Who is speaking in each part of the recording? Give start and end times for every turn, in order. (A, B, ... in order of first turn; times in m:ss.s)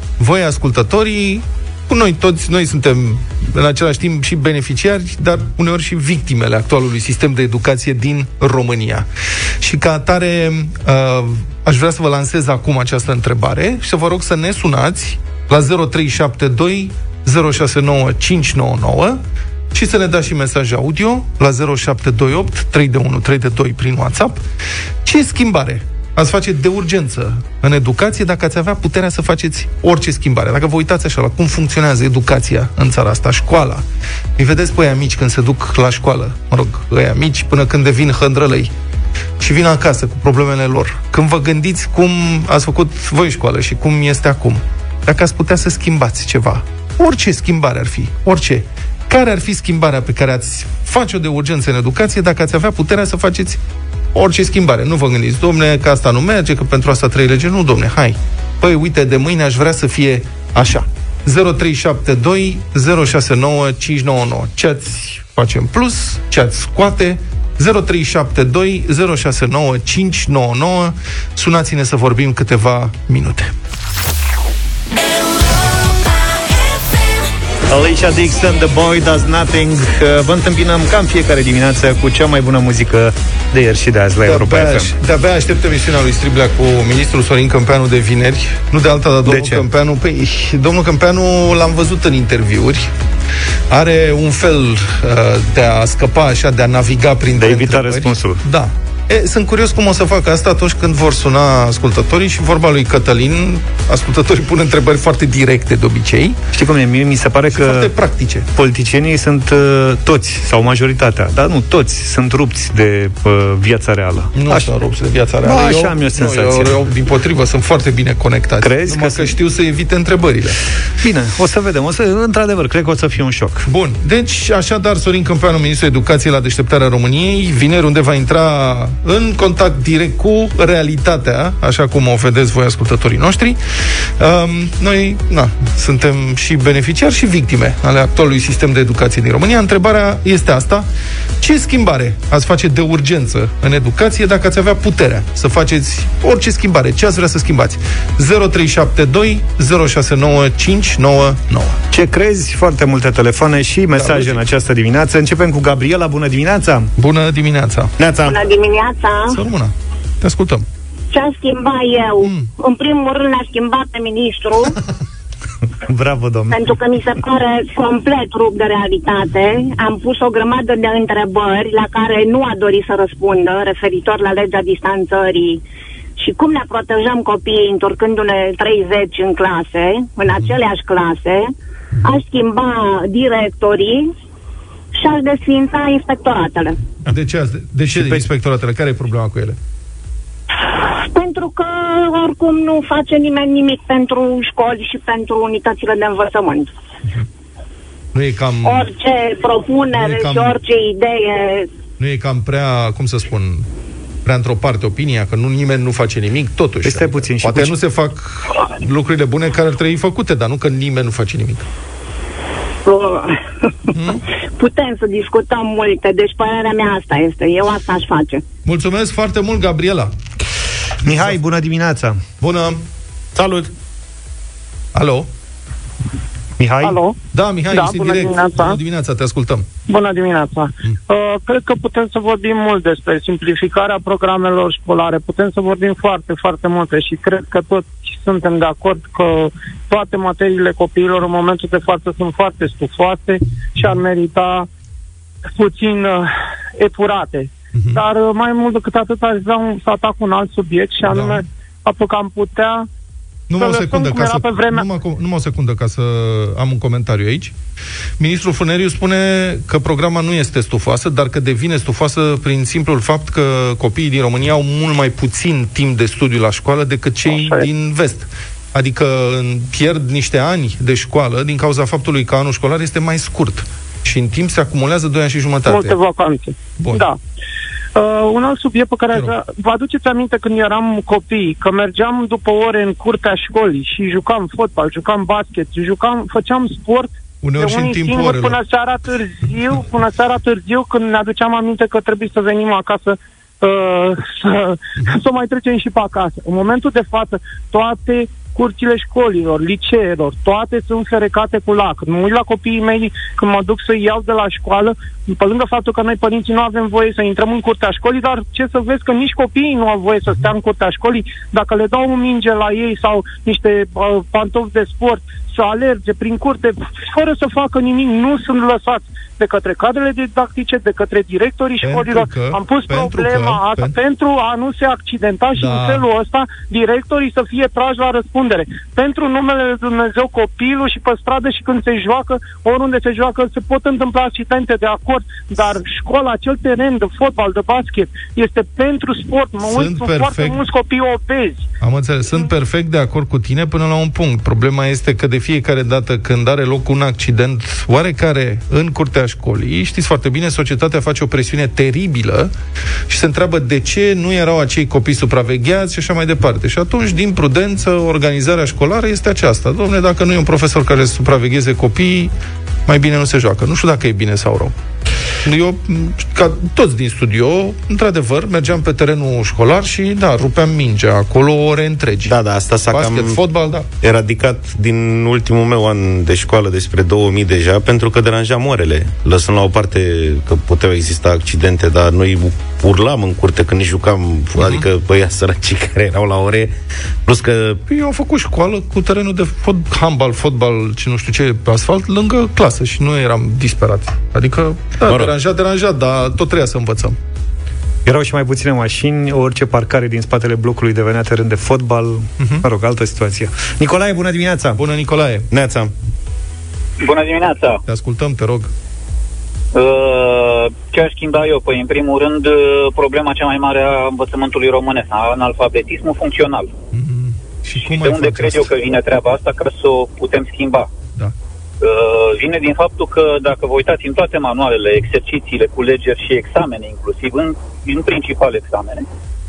0:00.2-0:09.1 A
0:09.6-0:19.2 A
0:19.7-0:24.4 A
0:25.0-0:33.8 A
0:34.4-0:38.7 A
0:39.4-0:53.6 A
0:54.1-1:13.5 A
1:17.7-1:24.9 B
1:24.2-1:32.9 A
1:29.3-1:29.6 B
1:33.7-1:46.4 A
1:37.4-1:38.4 B
1:46.5-1:47.9 B
1:47.5-1:48.5 A
1:48.6-1:54.7 B
1:54.4-2:00.6 A
1:55.4-1:56.8 B
1:58.6-1:59.3 B
2:01.0-2:03.6 B
2:03.6-2:20.9 A
2:21.4-2:31.8 A
2:31.9-2:36.9 B
2:33.9-2:34.4 A
2:37.0-2:37.9 A
2:38.0-2:38.4 C
2:38.2-2:39.4 D
2:39.3-2:40.7 A
2:41.1-2:44.8 D
2:42.2-2:42.5 A
2:45.9-2:46.7 B
2:46.5-2:55.6 D
2:56.2-3:01.5 D
3:02.0-3:04.1 D
3:05.0-3:06.8 D
3:07.1-3:09.6 A
3:07.9-3:08.2 B
3:11.0-3:16.7 D
3:18.1-3:18.9 A
3:18.6-3:21.7 D
3:19.9-3:20.6 A
3:22.0-3:23.7 A
3:24.2-3:31.7 A
3:26.8-3:27.8 B
3:32.8-3:33.5 D
3:33.9-3:34.2 A
3:34.6-3:38.4 D
3:38.6-3:40.1 A
3:41.0-3:42.2 B
3:41.1-3:41.4 A
3:42.4-3:42.8 A
3:43.4-3:43.7 C
3:44.9-3:45.3 A
3:46.6-3:47.0 B
3:46.8-3:47.2 E
3:47.3-3:49.7 A
3:47.7-3:48.8 E
3:49.9-4:04.7 E
4:05.5-4:12.9 E
4:07.7-4:08.0 A
4:11.1-4:11.4 A
4:13.5-4:17.5 A
4:13.6-4:14.9 E
4:18.2-4:36.0 A
4:27.3-4:27.6 E
4:35.7-4:37.2 E
4:36.8-4:37.1 A
4:38.0-5:41.7 E
4:47.4-4:48.6 A
5:21.8-5:24.0 A
5:25.6-5:26.1 A
5:39.6-5:40.6 A
5:41.8-5:52.5 A
5:53.1-6:02.3 A
6:02.9-6:04.8 A
6:05.4-6:12.4 A
6:12.2-6:13.4 C
6:12.9-6:13.9 A
6:14.0-6:26.7 C
6:24.5-6:24.8 A
6:27.2-6:27.8 C
6:27.9-6:37.2 A
6:35.0-6:35.3 C
6:38.0-6:44.8 B
6:42.4-6:42.6 A
6:44.8-6:45.5 A
6:45.5-6:45.9 C
6:47.0-6:47.8 F
6:47.9-6:48.7 A
6:49.7-6:56.7 F
6:56.9-6:58.7 A
6:57.9-7:00.9 F
7:01.8-7:09.0 F